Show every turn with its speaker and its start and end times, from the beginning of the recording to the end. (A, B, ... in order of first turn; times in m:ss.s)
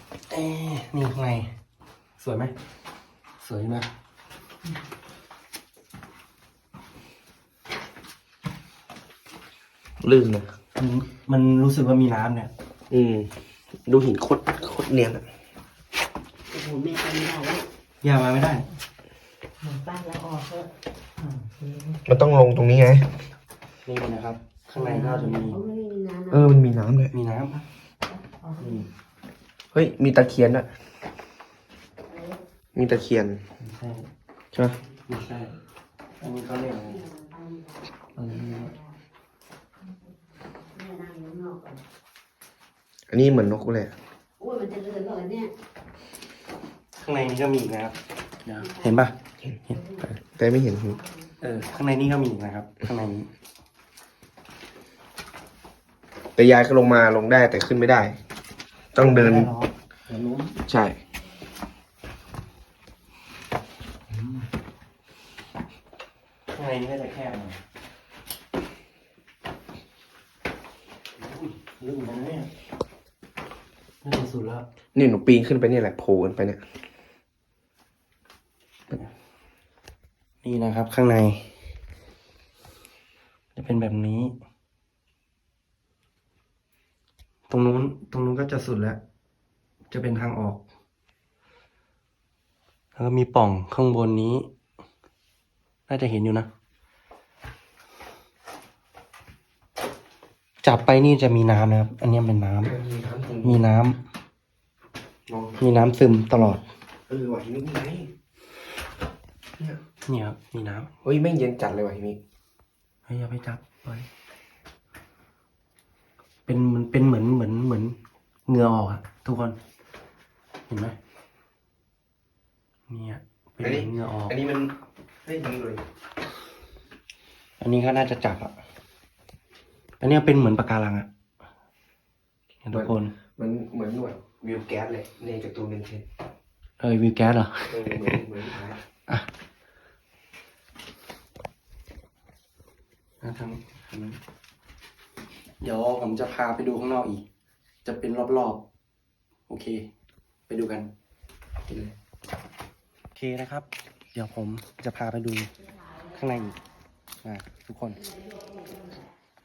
0:00.3-0:01.5 A
0:02.2-0:02.5 A
0:03.4-0:03.9 A
0:10.0-0:10.5 B
0:10.8-0:12.5 A
0:12.9-0:15.3 B
0:16.5-0:17.7 C
0:18.0-0:18.6 A
0:19.6-0:20.7 C
0:21.2-0:22.0 C
0:22.0-0:23.2 B
0:23.8-0:25.6 A
0:24.8-0:26.5 C
0:26.3-0:27.1 B
0:27.1-0:27.6 A
0:28.1-0:28.8 C
0:28.6-0:28.9 A
0:29.7-0:30.7 B
0:32.1-0:32.4 C
0:32.8-0:33.4 B
0:33.6-0:34.1 A
0:35.1-0:35.6 A
0:36.2-0:37.0 A
0:36.8-0:38.9 C
0:38.2-0:38.7 A
0:40.6-0:41.8 C
0:43.1-0:44.0 B
0:44.4-0:45.5 C
0:47.0-0:49.2 A
0:49.8-0:50.0 C
0:50.2-0:51.0 B
0:51.0-0:51.4 C
0:51.4-0:53.3 A
0:56.4-0:58.2 B
0:58.9-0:59.5 B
0:59.0-1:00.6 A
1:00.7-1:01.0 B
1:04.1-1:04.4 A
1:06.5-1:07.6 A
1:11.2-1:12.5 A
1:14.0-1:14.7 A
1:15.0-1:16.6 B
1:20.4-1:21.6 A
1:23.6-1:24.3 A
1:27.5-1:29.0 A
1:29.9-1:30.6 A
1:33.0-1:34.5 A
1:35.9-1:36.5 A
1:40.6-1:42.7 A
1:42.6-1:43.6 B
1:43.4-1:44.0 A
1:45.3-1:45.6 B
1:45.6-1:46.6 A
1:47.1-1:48.1 B
1:50.1-1:50.9 A
1:51.0-1:52.2 B
1:53.1-1:54.1 A
1:56.5-1:59.6 A
2:00.7-2:01.0 A
2:02.9-2:04.4 A
2:03.6-2:05.8 B
2:07.6-2:08.6 A
2:10.0-2:11.1 A
2:12.6-2:13.2 A
2:12.7-2:16.1 B
2:16.8-2:18.2 A
2:17.7-2:18.8 B
2:23.2-2:24.2 A
2:25.6-2:27.2 A
2:27.8-2:28.6 A
2:29.5-2:29.9 A
2:30.5-2:30.9 A
2:31.7-2:31.9 B
2:33.2-2:35.5 A
2:36.0-2:36.6 A
2:37.2-2:38.0 A
2:38.0-2:39.1 C